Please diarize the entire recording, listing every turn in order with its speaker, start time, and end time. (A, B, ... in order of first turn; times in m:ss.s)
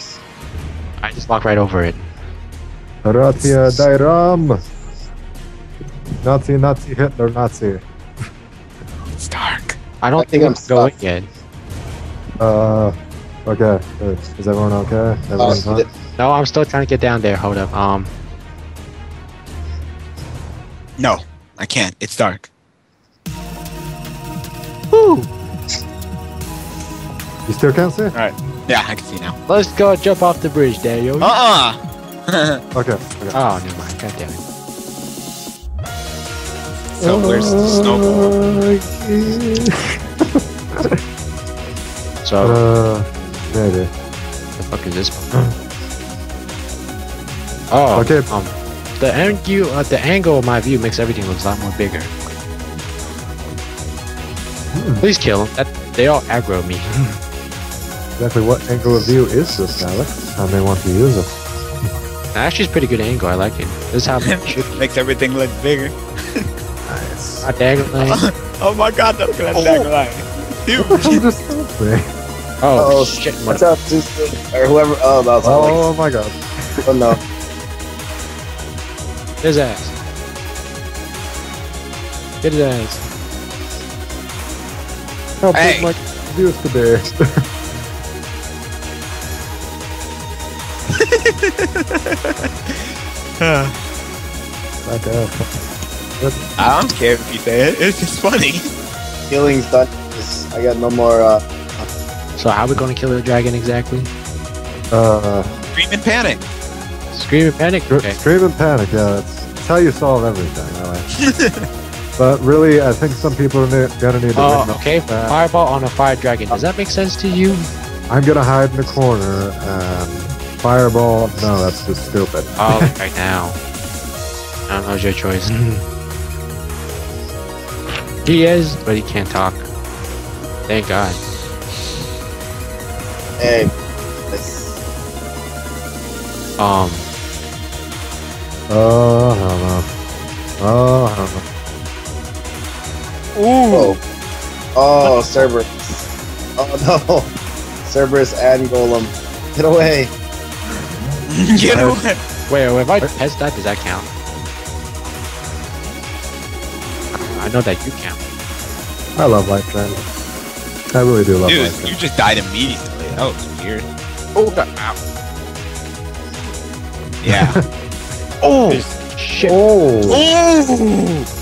0:01.0-0:02.1 A
0:03.0-0:04.6 B
0:06.2-0:07.8 B
0:09.2-0:09.8 C
0:10.0-0:11.3 A
0:10.2-0:11.0 D
0:12.4-0:12.9 B
0:13.5-0:15.8 B
0:15.4-0:15.9 D
0:16.2-0:18.1 A
0:21.0-0:22.5 C
0:24.9-0:25.3 A
0:27.5-0:28.2 B
0:28.1-0:29.4 C
0:29.5-0:31.3 A
0:31.2-0:32.6 C
0:32.7-0:33.4 B
0:33.3-0:34.4 A
0:37.0-0:38.4 C
0:37.0-0:39.7 B
0:42.2-0:42.6 A
0:42.4-0:43.9 B
0:44.6-0:45.3 A
0:47.7-0:52.1 A
0:47.9-0:48.3 B
0:54.7-0:55.1 B
0:55.0-0:57.2 A
0:58.2-1:01.3 B
1:02.3-1:04.9 A
1:04.2-1:06.5 C
1:06.9-1:07.5 B
1:07.4-1:08.2 A
1:08.0-1:11.2 C
1:10.8-1:12.0 B
1:12.6-1:13.6 A
1:12.8-1:15.9 D
1:15.4-1:16.4 B
1:16.9-1:17.2 D
1:19.4-1:19.9 A
1:22.4-1:23.0 A
1:25.4-1:27.2 B
1:25.5-1:25.9 C
1:31.0-1:32.3 C
1:33.4-1:33.8 C
1:34.8-1:35.5 B
1:36.2-1:36.4 B
1:36.6-1:38.7 C
1:39.3-1:41.9 D
1:42.4-1:44.1 A
1:44.9-1:45.5 B
1:45.7-1:46.4 C
1:47.1-1:48.2 A
1:47.9-1:51.1 B
1:51.3-1:51.7 C
1:52.2-1:55.4 B
1:54.4-1:57.7 A
1:58.1-2:02.8 B
2:02.6-2:03.6 A
2:04.7-2:05.8 A
2:08.2-2:09.7 A
2:10.7-2:11.2 A
2:13.4-2:13.7 D
2:14.3-2:14.8 D
2:16.6-2:17.1 A
2:18.7-2:19.9 B
2:20.6-2:21.4 B
2:23.4-2:24.0 C
2:23.7-2:24.0 D
2:24.8-2:27.3 D
2:27.8-2:30.1 D
2:31.3-2:32.2 C
2:31.7-2:32.0 B
2:32.5-2:34.1 A
2:37.2-2:38.2 A
2:39.2-2:40.0 B
2:41.0-2:42.0 B
2:41.4-2:43.9 C
2:44.4-2:45.0 A
2:47.2-2:47.6 C
2:47.3-2:47.6 B
2:48.4-2:49.6 A
2:48.7-2:48.9 C
2:49.4-2:50.2 B
2:50.1-2:51.3 C